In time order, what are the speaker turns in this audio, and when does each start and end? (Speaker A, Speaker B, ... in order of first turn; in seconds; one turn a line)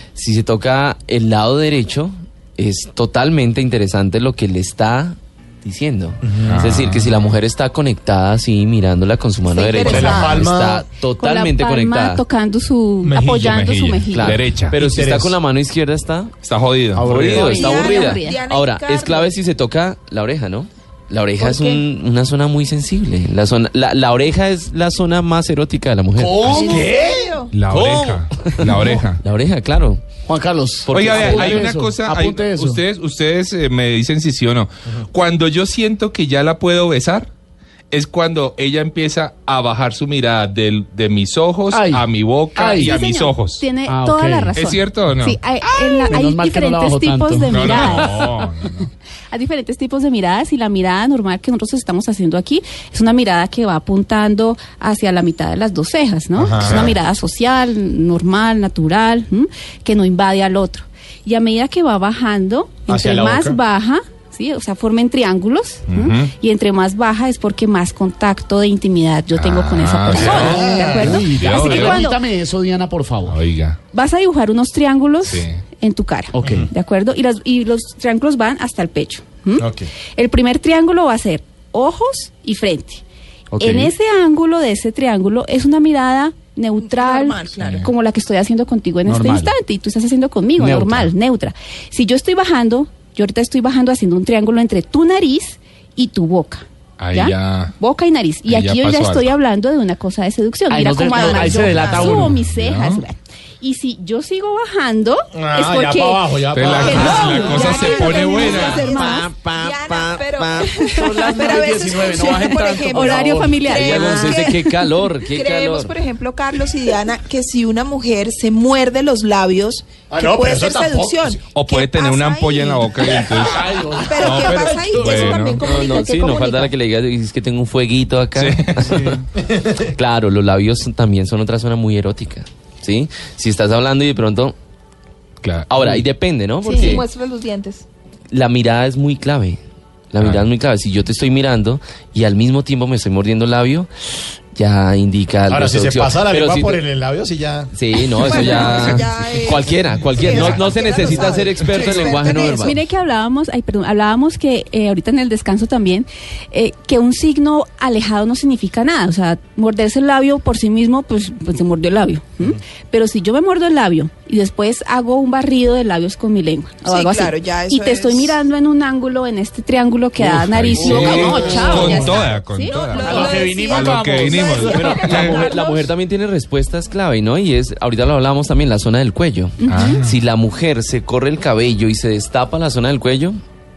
Speaker A: 0.2-12.2
Speaker B: 6.2-6.7
Speaker C: 6.5-7.4
Speaker D: 9.5-10.5
Speaker B: 9.8-10.8
Speaker E: 11.2-14.6
Speaker B: 13.0-13.5
Speaker C: 13.3-14.7
Speaker A: 14.1-16.3
Speaker B: 14.7-15.4
Speaker C: 16.4-17.5
Speaker B: 16.9-17.5
Speaker A: 17.0-26.4
Speaker E: 17.4-18.4
Speaker D: 17.4-19.3
Speaker D: 21.4-21.8
Speaker F: 26.2-26.9
Speaker D: 26.4-27.5
Speaker B: 26.6-27.4
Speaker C: 27.5-29.2
Speaker A: 27.7-30.0
Speaker F: 30.3-32.8
Speaker A: 30.9-31.7
Speaker C: 30.9-37.3
Speaker C: 37.9-43.7
Speaker F: 41.7-43.0
Speaker E: 42.5-48.5
Speaker F: 43.9-44.6
Speaker C: 44.6-45.4
Speaker F: 45.6-48.4
Speaker C: 47.5-48.9
Speaker E: 49.3-72.2
Speaker B: 56.4-57.0
Speaker C: 56.6-57.0
Speaker B: 62.9-63.6
Speaker C: 65.9-66.3
Speaker C: 69.3-72.0
Speaker B: 70.1-71.2
Speaker F: 70.9-73.4
Speaker C: 73.3-73.8
Speaker E: 73.9-83.0
Speaker C: 75.2-75.6
Speaker F: 76.3-76.7
Speaker B: 79.6-79.9
Speaker F: 83.5-83.9
Speaker E: 83.6-109.3
Speaker D: 86.8-87.9
Speaker C: 87.6-87.8
Speaker F: 89.1-89.5
Speaker F: 90.6-91.1
Speaker C: 97.0-97.8
Speaker C: 98.5-99.3
Speaker F: 100.7-102.4
Speaker D: 101.1-102.3
Speaker C: 102.2-103.0
Speaker B: 105.3-107.4
Speaker C: 106.5-108.9
Speaker D: 106.8-114.6
Speaker A: 108.6-110.7
Speaker F: 110.9-113.7
Speaker E: 112.9-114.8
Speaker A: 113.6-115.9
Speaker D: 115.3-123.5
Speaker B: 120.1-121.4
Speaker C: 121.5-123.7
Speaker F: 123.3-125.5
Speaker D: 124.0-126.7
Speaker C: 124.2-125.6
Speaker A: 125.6-129.2
Speaker C: 128.4-128.9
Speaker B: 128.9-129.9
Speaker A: 130.0-134.6
Speaker C: 135.4-135.7
Speaker A: 135.7-137.1
Speaker D: 136.7-137.8
Speaker E: 136.7-137.0
Speaker A: 138.3-139.6
Speaker A: 140.1-143.9
Speaker A: 144.5-146.8
Speaker B: 145.5-148.8
Speaker A: 147.7-152.8
Speaker D: 148.2-152.8
Speaker B: 150.1-152.2
Speaker E: 152.6-172.8
Speaker D: 166.8-168.4
Speaker C: 170.2-175.4
Speaker F: 170.8-172.1
Speaker D: 170.8-175.9
Speaker F: 173.0-175.3
Speaker A: 174.7-183.4
Speaker E: 179.6-180.1
Speaker C: 179.7-180.1